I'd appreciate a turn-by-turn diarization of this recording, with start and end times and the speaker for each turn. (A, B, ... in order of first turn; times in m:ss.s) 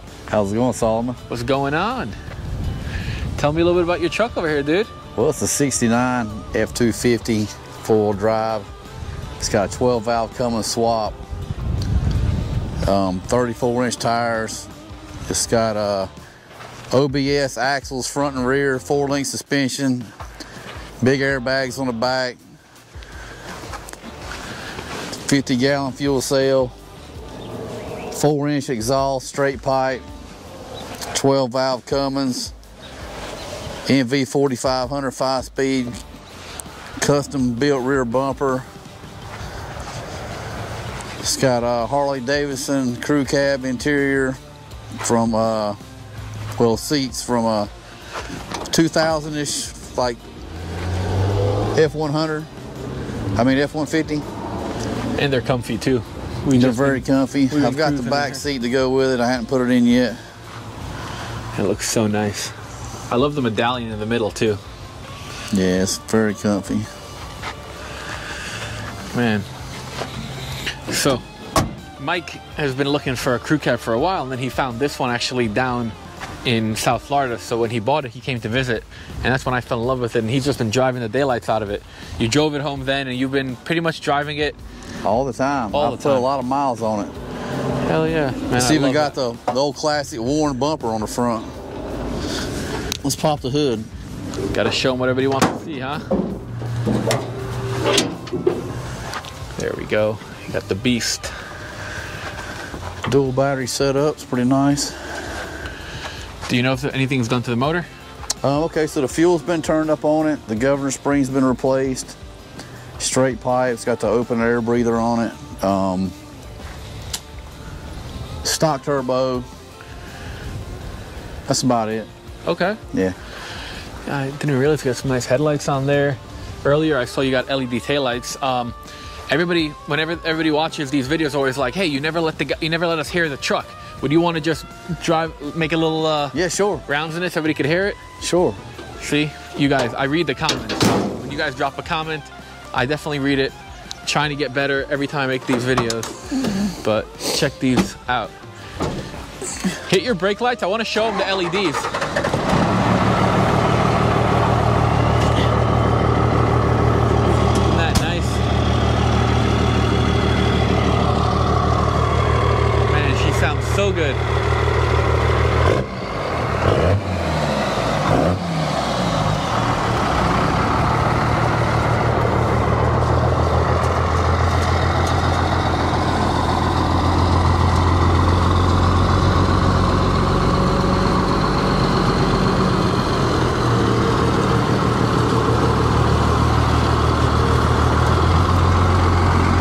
0:00.3-0:01.2 A
0:01.3-0:02.2 B
0:03.4-0:04.9 B
0:05.2-0:08.7 A
0:09.4-0:11.2 A
0:12.8-0:14.7 A
0:15.3-0:16.1 A
0:16.9-0:20.1 A
0:21.0-0:22.4 A
0:25.2-0:26.7 A
0:28.1-0:30.0 A
0:31.1-0:32.5 A
0:33.8-0:36.0 A
0:37.0-0:38.7 A
0:41.2-0:44.4 A
0:45.0-0:45.8 A
0:46.6-0:47.7 A
0:48.7-0:50.2 A
0:51.7-0:52.5 A
0:53.4-0:54.2 A
0:55.2-0:58.4 B
0:56.5-1:00.2 A
1:01.5-1:02.5 B
1:03.1-1:04.6 B
1:05.5-1:06.9 A
1:09.1-1:09.5 B
1:10.9-1:11.2 B
1:12.0-1:24.6 B
1:25.0-1:27.1 A
1:25.7-1:26.3 B
1:27.8-1:29.2 B
1:28.5-1:31.5 A
1:33.0-1:33.9 A
1:34.5-1:36.0 B
1:39.6-1:41.3 B
1:43.1-1:45.0 A
1:46.4-1:47.9 B
1:48.4-1:52.2 A
1:53.0-1:56.1 A
1:58.4-1:59.4 A
2:01.5-2:02.1 A
2:02.4-2:02.8 B
2:04.0-2:08.8 B
2:09.3-2:18.0 B
2:16.3-2:16.8 A
2:18.2-2:18.6 A
2:19.0-2:28.3 B
2:29.8-2:31.9 B
2:37.5-2:38.4 B
2:42.8-2:44.2 B